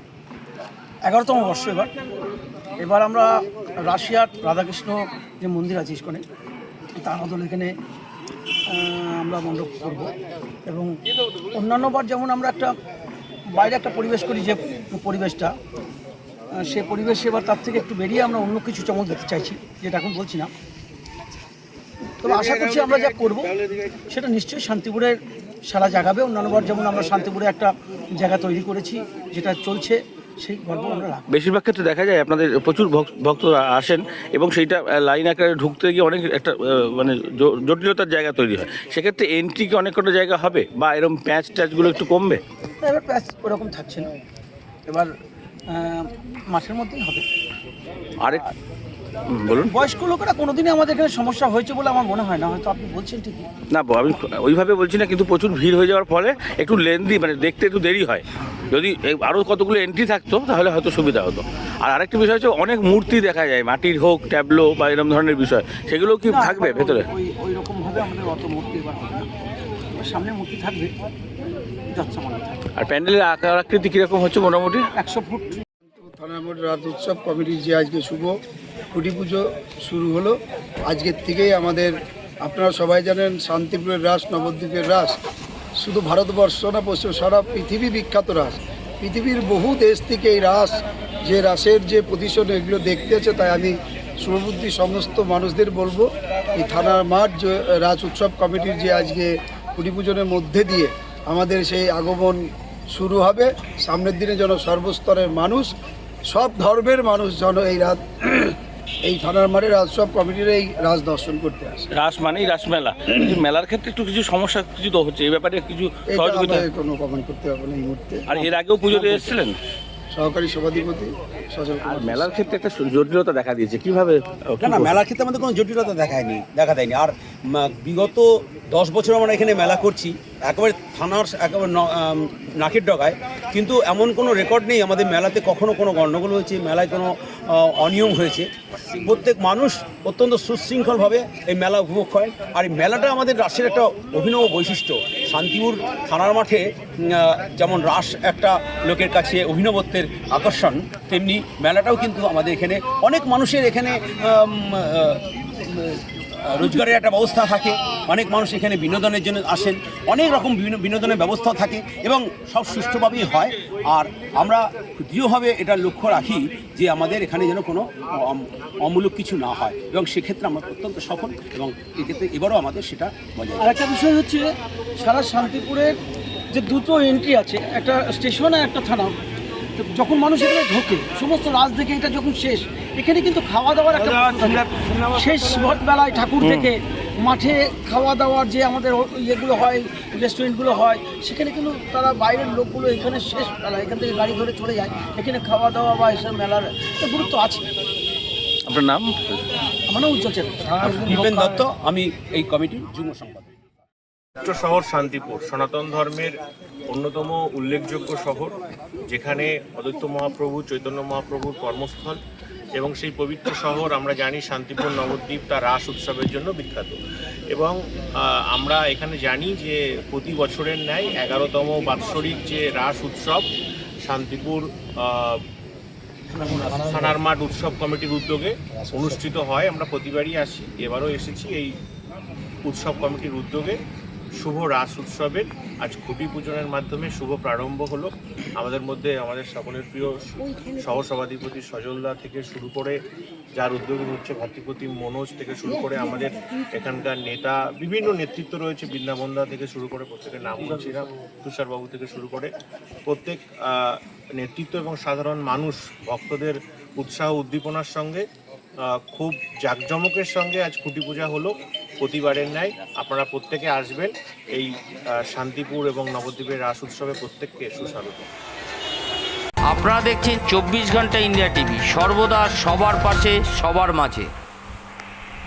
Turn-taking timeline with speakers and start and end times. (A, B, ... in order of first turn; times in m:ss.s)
0:01.0-0:01.9 A
0:02.8-0:06.2 A
0:07.0-0:07.7 A
0:08.7-0:10.1 A
0:10.6-0:11.0 A
0:11.5-0:12.7 A
0:13.5-0:15.5 A
0:16.5-0:20.5 A
0:22.2-0:23.5 A
0:24.1-0:31.2 A
0:31.3-0:42.4 B
0:42.8-0:44.1 A
0:44.9-0:45.1 A
0:45.7-0:47.2 A
0:48.2-0:48.5 B
0:49.3-0:49.7 B
0:49.6-0:53.5 A
0:53.7-1:07.0 B
1:06.2-1:09.3 A
1:09.9-1:11.0 A
1:11.9-1:12.6 A
1:12.8-1:14.8 B
1:14.9-1:15.6 A
1:15.9-1:18.3 C
1:18.9-1:20.4 C
1:20.9-1:25.2 C
1:25.8-1:45.7 C
1:46.3-1:51.9 C
1:51.9-1:56.7 B
1:56.1-1:59.3 C
1:58.3-1:59.6 B
2:00.1-2:02.3 C
2:01.8-2:05.0 B
2:04.6-2:18.5 D
2:19.0-2:53.8 D
2:53.6-2:54.4 A
2:55.0-2:55.9 A
2:56.5-2:59.1 A
2:59.8-3:17.6 A
3:06.4-3:06.7 B
3:18.7-3:19.4 B
3:19.9-3:21.6 A
3:20.8-3:23.5 D
3:24.4-3:26.3 E
3:26.9-3:28.6 E
3:29.1-3:32.2 E
3:32.8-3:37.0 E
3:37.5-3:43.5 E
3:44.0-3:45.4 E
3:46.3-3:47.2 D
3:46.5-3:51.8 E
3:48.8-3:49.1 D
3:52.6-3:53.8 E
3:54.4-4:03.0 E
4:03.6-4:12.5 E
4:13.1-4:18.2 E
4:18.8-4:28.3 E
4:29.7-4:34.3 F